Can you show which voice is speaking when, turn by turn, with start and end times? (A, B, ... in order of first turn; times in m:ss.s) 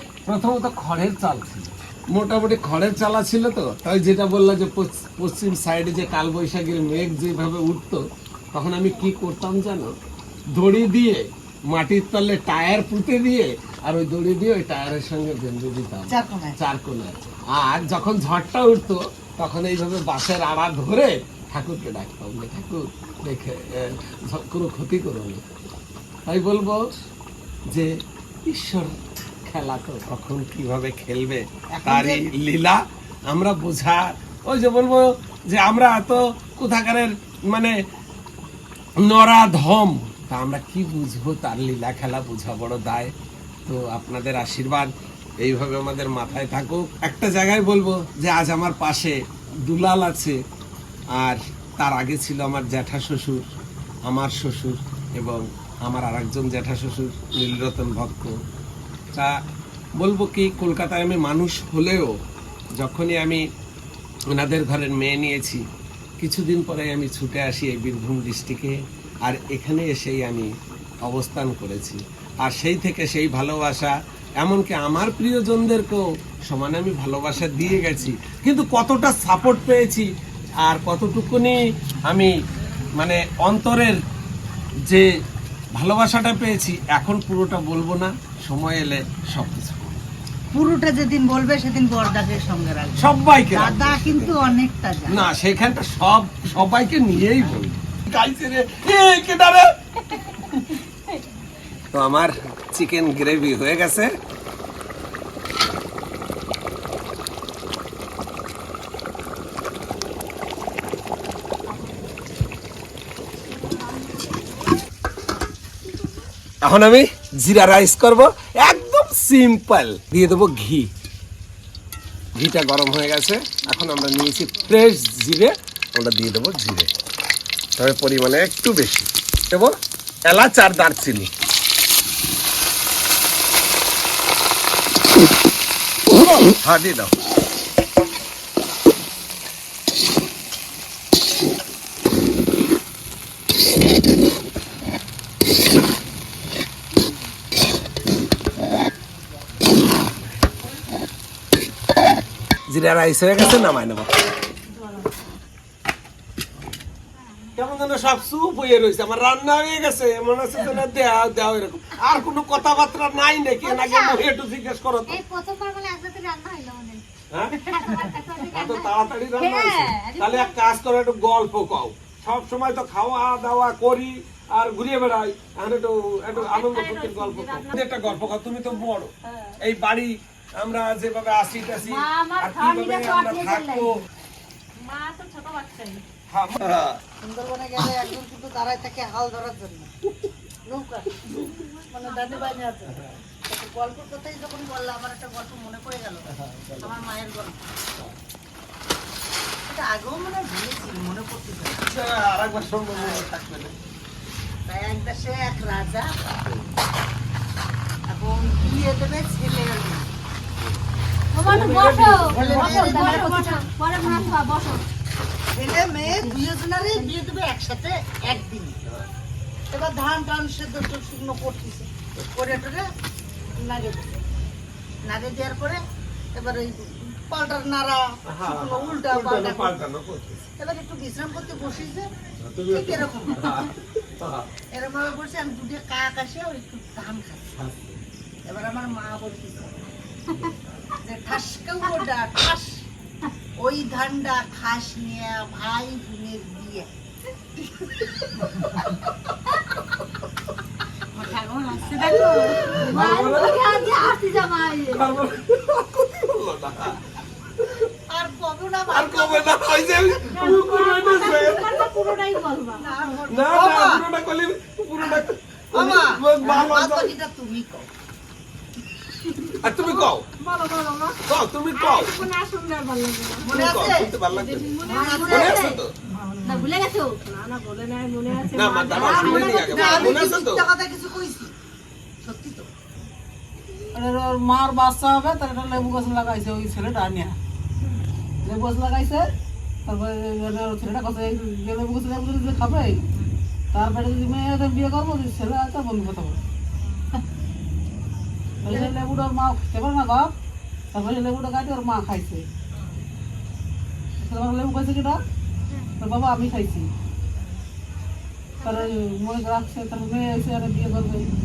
0:00.3-0:09.9 A
0:10.5-0:25.4 A
0:16.1-0:16.6 B
0:26.3-0:26.9 A
0:28.5-0:37.7 A
0:31.7-0:32.3 B
0:39.0-0:43.1 A
0:43.6-0:44.9 A
0:45.4-0:50.4 A
0:51.2-0:53.5 A
0:54.1-0:58.3 A
1:00.0-1:02.1 A
1:02.8-1:03.4 A
1:04.3-1:05.6 A
1:06.2-1:10.5 A
1:11.0-1:20.1 A
1:20.6-1:22.3 A
1:23.0-1:24.0 A
1:25.7-1:30.0 A
1:30.5-1:35.2 B
1:33.0-1:34.4 A
1:35.1-1:39.7 A
1:41.9-1:44.1 A
1:56.6-2:00.9 A
2:02.3-2:06.9 A
2:07.8-2:09.7 A
2:10.2-2:11.3 A
2:16.6-2:17.1 A
2:32.7-2:34.1 A
2:37.5-2:45.2 A
2:43.7-2:44.1 C
2:45.1-2:47.0 C
2:47.3-3:04.0 A
2:47.6-2:48.9 C
2:49.3-2:50.5 D
2:56.3-2:58.1 D
2:59.2-2:59.5 D
3:01.8-3:03.9 D
3:04.8-3:06.0 D
3:06.3-3:07.0 A
3:07.2-3:09.9 B
3:10.6-3:11.1 B
3:11.5-3:12.6 D
3:11.9-3:16.3 B
3:16.3-3:16.9 A
3:16.8-3:17.6 B
3:19.6-3:21.9 B
3:21.9-3:23.7 A
3:22.9-3:23.2 B
3:24.7-3:26.2 B
3:28.1-3:30.1 B
3:31.3-3:34.8 D
3:32.0-3:33.6 B
3:32.7-3:33.6 C
3:35.5-3:38.8 B
3:39.7-3:42.9 B
3:43.6-3:44.1 B
3:45.0-3:45.8 B
3:46.3-3:49.8 B
3:48.3-3:50.5 A
3:50.6-3:52.1 B
3:52.4-3:54.5 A
3:52.7-3:53.6 B
3:54.7-3:57.5 B
3:57.5-3:58.0 A
3:58.4-3:59.9 B
4:01.0-4:02.8 B
4:03.6-4:06.9 B
4:11.2-4:15.0 D
4:12.8-4:13.8 A
4:14.9-4:17.0 A
4:18.1-4:19.8 B
4:18.9-4:21.9 A
4:20.2-4:23.2 D
4:22.7-4:24.0 B
4:23.3-4:27.1 A
4:25.0-4:27.9 B
4:29.4-4:31.2 D
4:29.6-4:30.3 A
4:31.3-4:32.1 A
4:31.7-4:33.5 D
4:33.4-4:34.1 B
4:33.5-4:35.9 A
4:34.2-4:35.8 D
4:34.8-4:35.6 B
4:36.1-4:36.7 E
4:36.4-4:40.2 D
4:38.5-4:40.6 A
4:38.9-4:41.5 B
4:42.2-4:42.7 B
4:43.9-4:47.4 E
4:48.4-4:49.2 E
4:49.8-4:53.0 E
4:53.7-4:56.4 E
4:58.6-5:00.3 E
5:00.9-5:02.4 E
5:04.2-5:05.2 E
5:06.0-5:06.9 E
5:08.6-5:11.3 E